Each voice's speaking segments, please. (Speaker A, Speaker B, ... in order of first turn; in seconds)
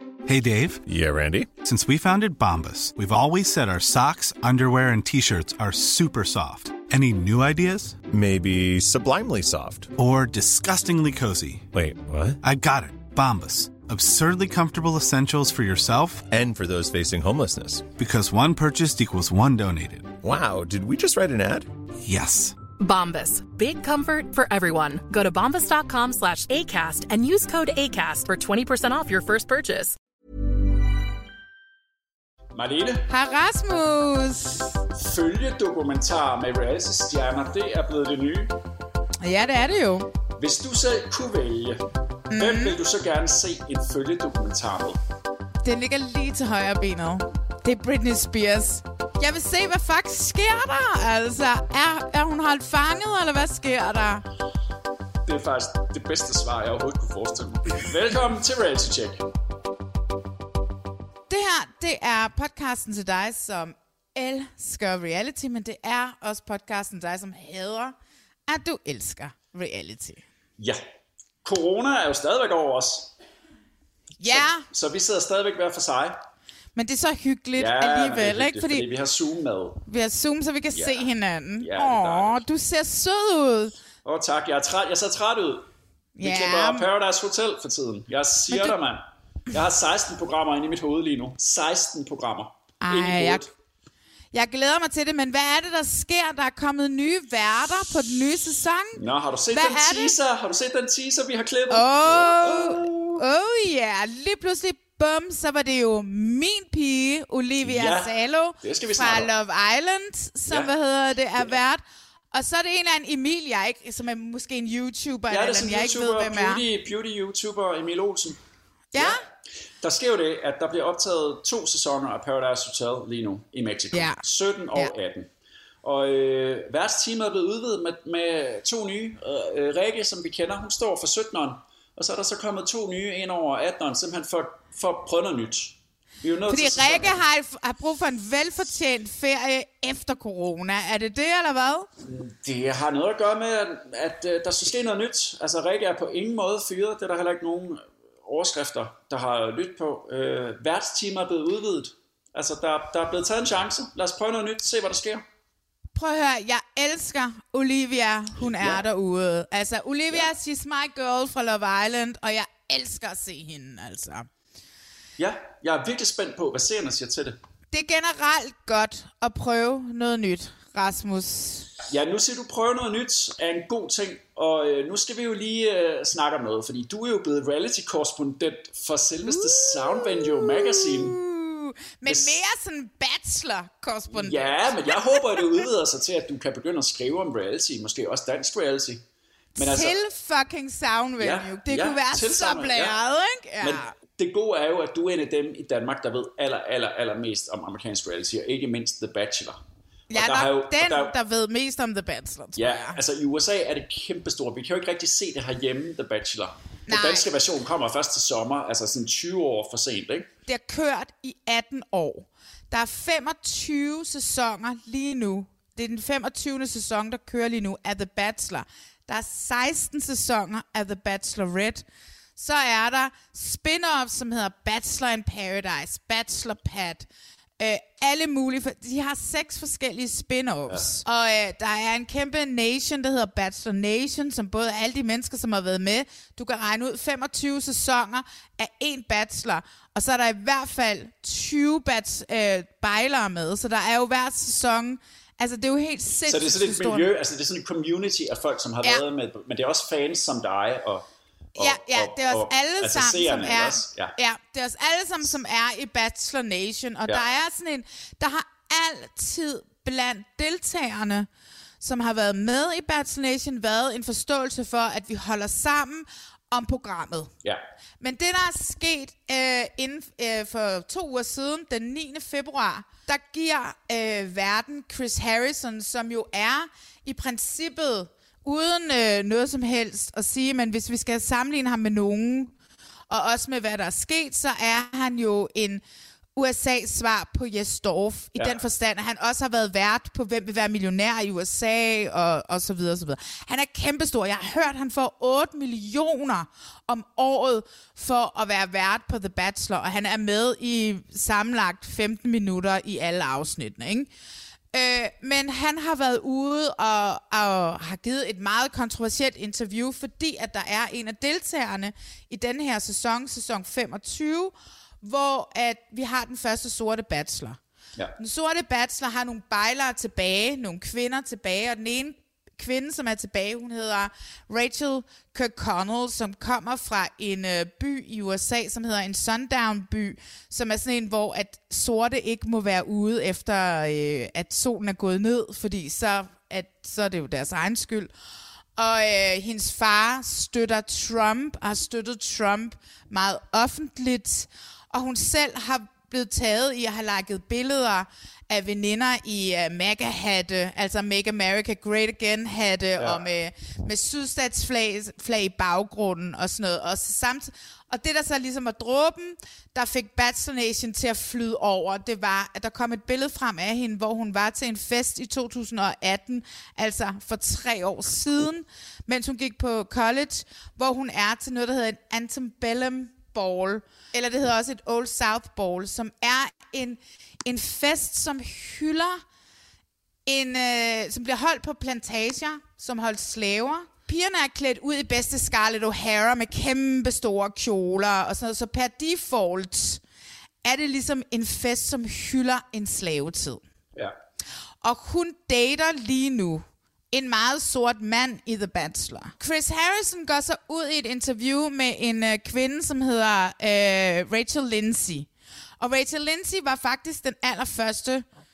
Speaker A: 0.3-0.8, 1.6-8.0, 10.0-11.7, 12.4-16.3, 18.0-20.2, 22.0-22.6
Speaker B: 0.9-1.5, 8.1-9.9, 11.7-12.4, 16.3-17.9, 20.2-21.7
Speaker C: 22.8-29.9
Speaker D: 32.5-33.1, 35.0-38.5, 40.4-41.8, 42.3-45.0, 55.2-59.2, 71.4-73.1, 74.3-76.2, 77.6-79.8, 80.7-81.1, 81.6-82.4, 84.0-85.7, 86.2-93.5, 99.0-103.2, 107.6-109.3, 115.3-118.4, 119.0-119.2, 119.8-125.3, 125.8-137.2, 142.0-155.2, 158.4-158.8, 165.2-167.4, 171.9-181.2, 182.1-182.4, 184.1-189.0, 189.6-190.0, 191.2-193.0, 193.6-199.6, 200.1-201.1, 202.6-210.3, 230.7-231.0, 246.3-251.1, 251.6-254.1, 288.4-288.6
Speaker E: 33.1-34.7, 39.2-40.1, 42.3-42.8, 45.6-54.2, 61.3-68.0, 68.5-70.2, 74.2-74.7, 76.8-78.8, 79.9-83.8, 86.2-86.9, 88.5-88.8, 92.8-93.5, 94.3-99.0, 99.5-100.1, 101.7-111.8, 112.3-116.6, 118.9-119.2, 123.9-124.2, 136.5-141.9, 156.0-164.3, 167.7-171.7, 179.2-185.6, 189.6-193.9, 200.1-203.0, 206.9-207.2, 210.5-221.8, 222.4-227.1, 227.6-247.1, 251.6-261.3, 261.8-267.3, 268.0-282.5, 283.1-285.8, 286.4-304.1, 304.7-317.6, 318.2-338.1, 338.8-379.2, 380.3-390.0, 390.6-393.6, 394.8-405.3, 405.8-408.3